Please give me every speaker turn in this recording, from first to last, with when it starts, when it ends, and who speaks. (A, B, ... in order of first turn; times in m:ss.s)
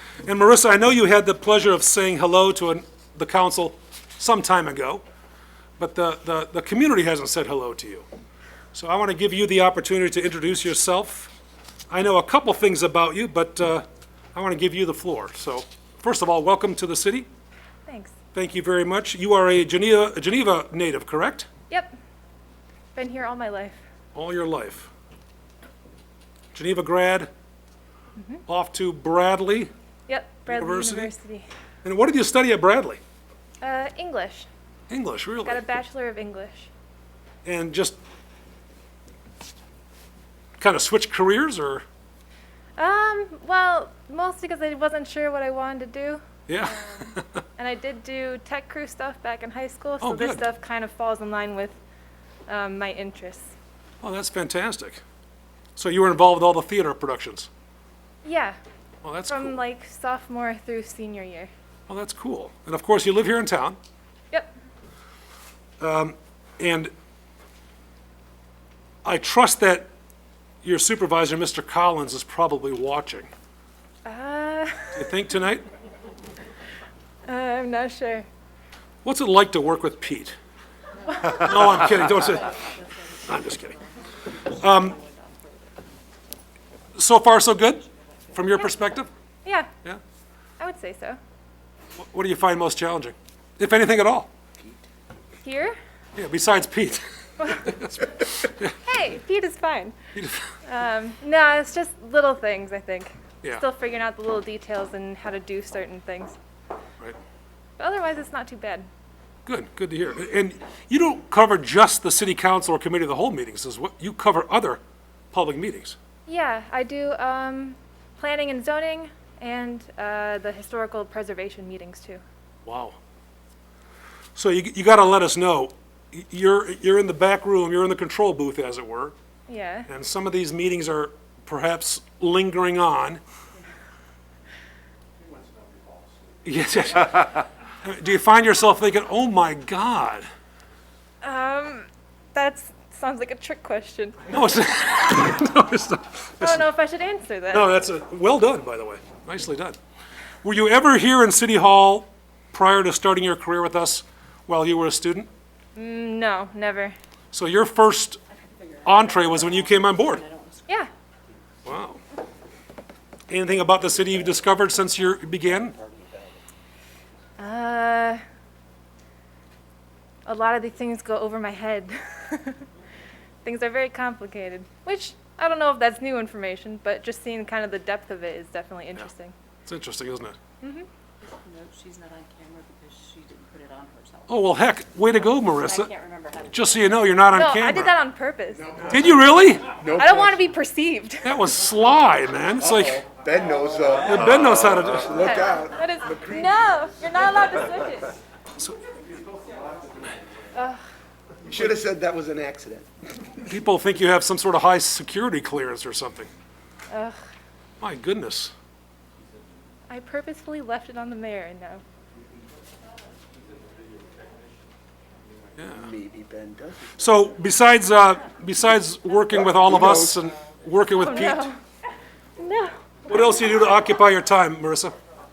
0:00.2-0:05.0 A
0:05.8-0:08.0 A
0:08.7-0:11.3 A
0:11.9-0:17.3 A
0:17.9-0:18.1 B
0:18.3-0:21.5 A
0:21.7-0:22.0 B
0:23.0-0:23.8 B
0:24.2-0:24.9 A
0:26.5-0:27.3 A
0:28.2-0:28.4 B
0:28.5-0:29.7 A
0:30.1-0:31.5 B
0:30.5-0:31.1 A
0:31.8-0:33.0 A
0:33.6-0:34.5 B
0:34.9-0:35.6 A
0:35.4-0:36.7 B
0:37.4-0:38.0 A
0:40.6-0:41.8 A
0:42.8-0:51.8 B
0:46.5-0:47.4 A
0:50.0-0:50.4 A
0:52.5-0:53.5 B
0:54.0-0:55.0 A
0:55.8-0:57.5 A
0:58.2-0:58.6 B
0:59.0-0:59.6 A
0:59.3-1:01.5 B
1:01.9-1:03.8 A
1:05.8-1:06.9 A
1:09.0-1:09.9 A
1:10.6-1:13.3 A
1:14.0-1:15.2 B
1:14.9-1:15.6 A
1:17.3-1:18.3 B
1:19.0-1:20.4 A
1:21.2-1:22.7 A
1:21.8-1:25.8 C
1:23.2-1:23.8 A
1:24.4-1:25.0 A
1:27.0-1:29.1 A
1:29.4-1:29.7 B
1:30.6-1:31.2 B
1:32.0-1:34.3 A
1:35.4-1:35.8 B
1:36.2-1:38.7 A
1:38.8-1:40.0 B
1:40.2-1:40.5 A
1:40.6-1:46.4 B
1:47.8-1:48.9 B
1:49.5-1:54.8 A
1:55.3-1:56.0 A
1:56.3-2:02.2 B
2:02.6-2:03.0 A
2:04.4-2:09.2 A
2:09.5-2:09.9 B
2:09.9-2:13.2 A
2:16.4-2:20.3 A
2:21.2-2:24.3 B
2:24.3-2:26.7 A
2:26.4-2:27.7 B
2:27.5-2:29.8 A
2:30.4-2:35.3 A
2:35.8-2:37.0 B
2:37.3-2:38.2 A
2:38.3-2:40.8 C
2:38.8-2:40.2 A
2:41.6-2:42.0 A
2:43.3-2:45.8 A
2:45.6-2:46.4 D
2:47.4-2:48.2 B
2:50.3-2:52.7 B
2:53.4-2:59.4 B
2:59.6-3:00.4 A
3:00.6-3:00.9 B
3:01.2-3:04.5 C
3:04.3-3:05.9 A
3:05.0-3:07.0 C
3:06.5-3:07.9 A
3:07.3-3:08.8 B
3:08.7-3:10.5 D
3:08.9-3:09.8 A
3:09.8-3:11.4 B
3:11.2-3:13.1 A
3:12.6-3:16.6 D
3:14.0-3:15.5 A
3:15.1-3:18.2 B
3:20.5-3:20.8 B
3:21.4-3:22.9 D
3:23.5-3:26.3 A
3:26.9-3:27.2 B
3:27.8-3:28.5 A
3:29.9-3:31.8 B
3:35.6-3:35.9 A
3:35.8-3:37.0 D
3:37.0-3:41.5 A
3:39.5-3:40.2 D
3:41.0-3:41.6 B
3:42.4-3:42.8 B
3:43.1-3:44.9 A